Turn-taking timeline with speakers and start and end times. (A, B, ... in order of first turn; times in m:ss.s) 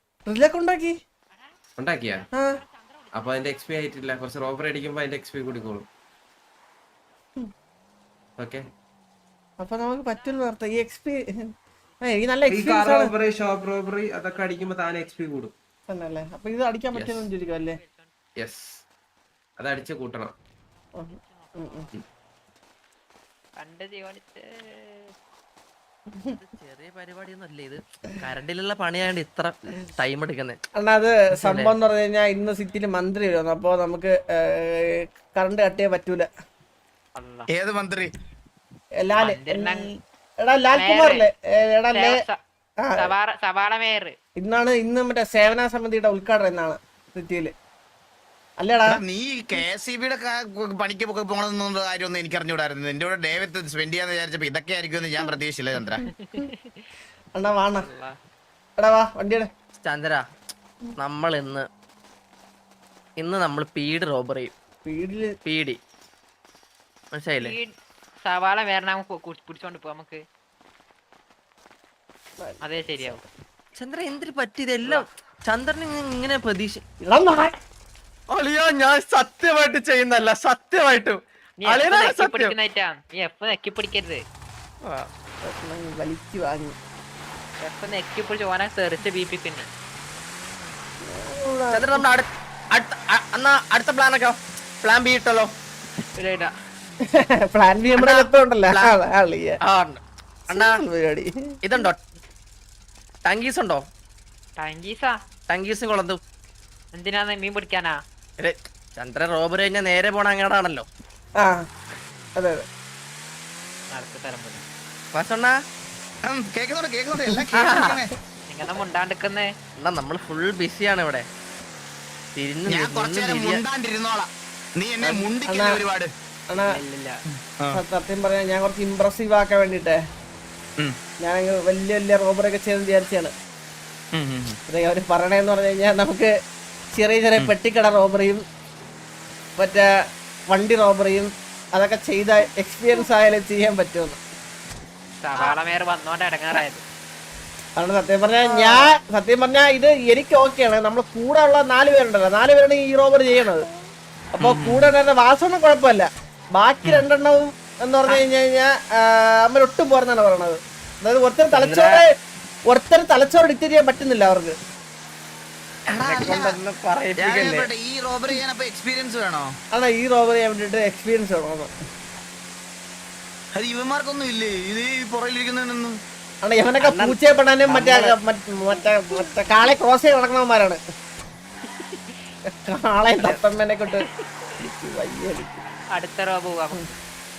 0:00.3-0:00.9 A
0:01.8-0:02.2 B
0:02.3-0:02.6 A
0:03.1-0:05.8 B
0:08.4-0:08.6 B
0:09.6-0:11.4 A
0:12.0-0:13.1 A
0:12.5-0:15.5 B
0:15.9-0:17.8 A
0:16.9-0:17.3 B
0:17.8-0:18.1 C
0:18.4-0:18.8 B
0:19.6-0:20.3 B
0:21.0-0:21.9 A
0:23.6-0:25.1 C
0:26.3-0:30.6 D
0:30.8-0:36.3 A
0:37.2-0:37.5 C
0:37.5-0:38.1 E
0:39.0-0:42.2 A
0:39.2-0:39.9 C
0:40.7-0:41.2 C
0:41.9-0:42.4 C
0:42.8-0:43.1 A
0:43.0-0:44.1 C
0:44.4-0:47.5 A
0:48.6-0:49.0 A
0:48.9-0:56.0 E
0:56.0-0:56.4 A
0:56.0-0:56.8 C
0:57.4-0:57.9 A
0:57.8-0:58.1 C
0:58.8-0:59.5 A
0:59.8-1:00.2 D
1:01.0-1:01.6 D
1:03.2-1:04.5 D
1:04.8-1:05.3 A
1:05.4-1:05.8 D
1:07.1-1:07.6 D
1:07.4-1:07.7 C
1:08.2-1:10.2 C
1:12.4-1:13.2 A
1:12.6-1:13.2 C
1:13.8-1:16.8 D
1:17.1-1:17.5 A
1:18.3-1:22.5 D
1:21.6-1:24.2 C
1:25.4-1:26.8 A
1:27.6-1:29.7 C
1:31.0-1:32.0 A
1:31.7-1:35.5 D
1:36.1-1:36.5 C
1:37.1-1:39.6 A
1:38.0-1:38.9 D
1:39.6-1:40.8 D
1:40.5-1:41.3 A
1:41.6-1:42.0 D
1:43.2-1:43.8 D
1:44.6-1:45.1 C
1:45.5-1:46.2 D
1:46.9-1:47.9 C
1:48.4-1:50.9 D
1:51.4-1:51.6 A
1:52.4-1:52.6 A
1:53.9-1:54.6 C
1:55.1-1:55.5 D
1:56.2-1:58.1 E
1:57.5-1:58.0 D
1:58.5-1:59.5 C
1:59.8-2:01.2 D
2:02.4-2:03.6 D
2:02.7-2:06.1 E
2:05.4-2:05.8 A
2:06.5-2:06.8 A
2:06.6-2:07.2 C
2:07.7-2:10.0 A
2:11.2-2:13.3 A
2:14.1-2:14.6 E
2:14.7-2:16.3 A
2:16.9-2:18.4 A
2:19.6-2:19.9 A
2:20.5-2:24.2 A
2:25.2-2:26.8 C
2:27.8-2:33.7 A
2:28.4-2:28.9 D
2:34.3-2:42.1 A
2:34.4-2:34.9 D
2:41.5-2:42.0 D
2:42.7-2:44.5 A
2:45.9-2:46.6 E
2:45.9-2:47.7 D
2:47.2-2:49.5 E
2:49.7-2:51.7 A
2:53.5-2:56.0 E
2:56.4-3:00.8 A
2:56.8-2:58.2 D
3:01.8-3:02.1 C
3:02.6-3:04.1 A
3:04.6-3:05.6 A
3:06.0-3:06.9 C